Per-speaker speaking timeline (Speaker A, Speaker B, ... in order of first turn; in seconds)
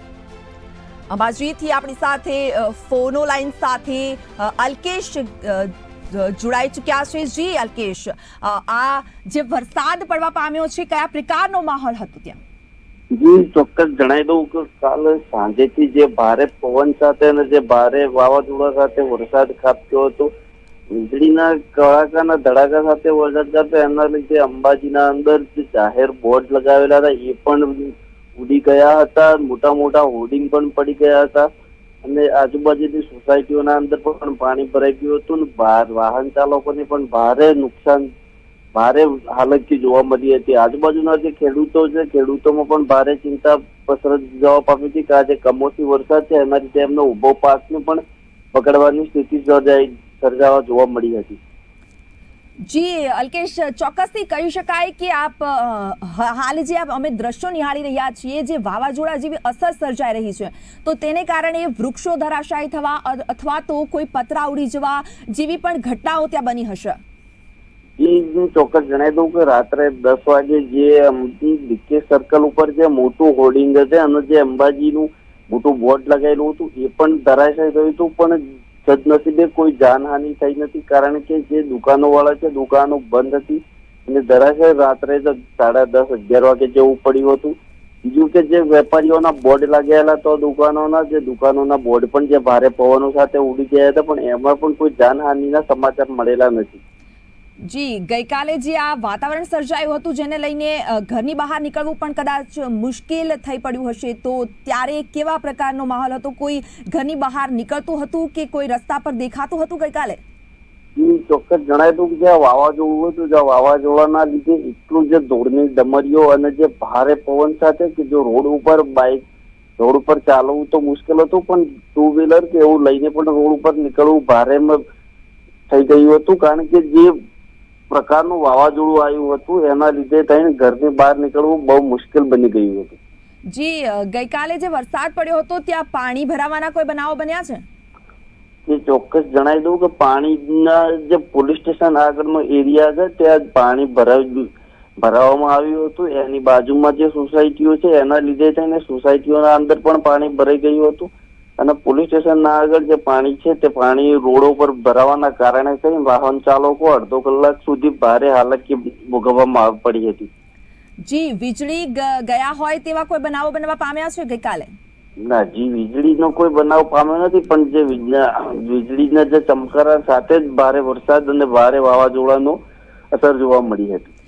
Speaker A: 1.1-12.4, 52.6-67.0, 97.7-110.2, 133.5-137.6, 161.0-164.7
Speaker B: 13.1-20.3, 20.9-31.5, 32.0-38.1, 38.7-48.0, 48.5-51.4, 68.0-96.8, 111.0-119.2, 119.8-124.8, 125.7-127.1, 127.9-133.0, 138.7-144.5, 145.0-160.3, 165.2-172.6, 173.1-174.1